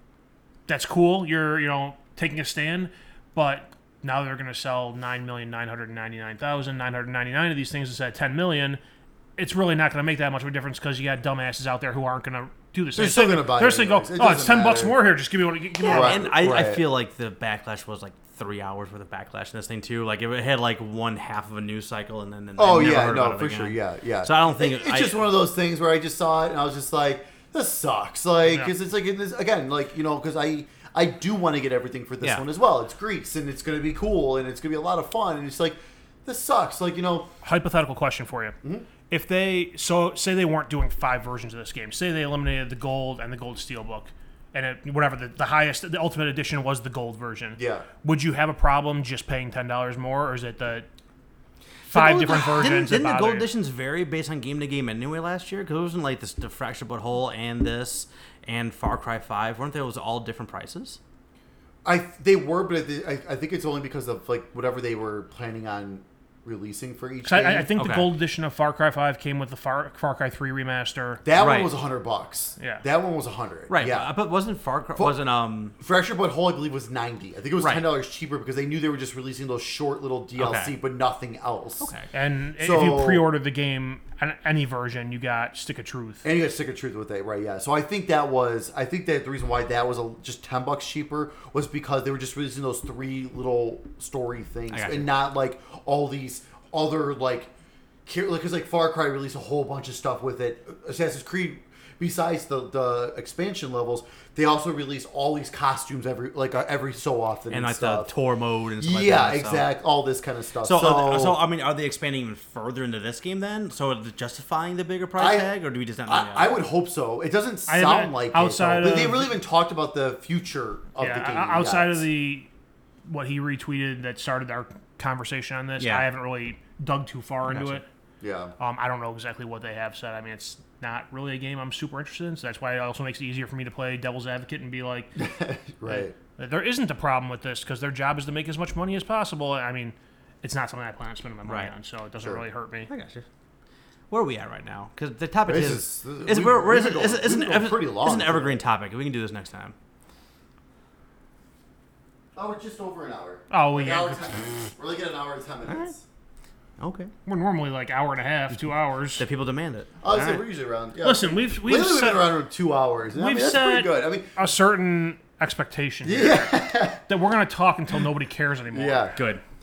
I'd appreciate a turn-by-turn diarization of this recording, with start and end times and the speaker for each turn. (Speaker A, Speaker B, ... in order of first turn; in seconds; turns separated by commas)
Speaker A: 0.7-8.8, Speaker A: 9.4-16.3, Speaker B: 12.9-15.0, Speaker C: 15.8-25.2, Speaker B: 15.8-16.8, Speaker B: 22.6-37.3, Speaker A: 37.4-38.5, Speaker A: 39.1-50.9, Speaker B: 47.6-47.9, Speaker C: 51.9-61.0, Speaker A: 51.9-53.5, Speaker B: 61.8-67.7, Speaker A: 67.2-71.2, Speaker C: 67.8-68.1, Speaker B: 71.2-74.1, Speaker C: 71.3-71.7, Speaker A: 72.6-72.8, Speaker C: 73.7-75.8, Speaker B: 75.8-81.9, Speaker C: 77.6-77.8, Speaker C: 80.3-80.7, Speaker C: 81.8-82.1, Speaker A: 82.1-86.2, Speaker B: 82.6-83.3, Speaker B: 86.2-97.5, Speaker C: 94.7-95.1, Speaker B: 98.0-108.1, Speaker C: 107.5-109.6, Speaker B: 108.8-111.4, Speaker C: 110.6-116.5, Speaker B: 115.2-115.5, Speaker B: 116.0-122.0, Speaker A: 117.7-119.3, Speaker A: 121.0-122.5, Speaker A: 123.0-127.8, Speaker C: 125.8-126.1, Speaker C: 127.5-127.8, Speaker B: 128.2-128.5, Speaker A: 128.6-135.1, Speaker B: 135.2-136.1, Speaker A: 135.9-142.9, Speaker C: 141.4-141.7, Speaker C: 142.9-143.2, Speaker C: 144.1-149.7, Speaker B: 145.4-148.6, Speaker B: 152.3-156.0, Speaker A: 153.5-154.2, Speaker C: 155.7-155.9, Speaker C: 156.8-157.1, Speaker A: 157.2-159.2, Speaker C: 159.2-160.4, Speaker B: 160.0-164.4, Speaker A: 161.0-162.3, Speaker A: 163.1-169.2, Speaker B: 166.0-167.0, Speaker B: 168.7-169.2, Speaker C: 169.2-169.4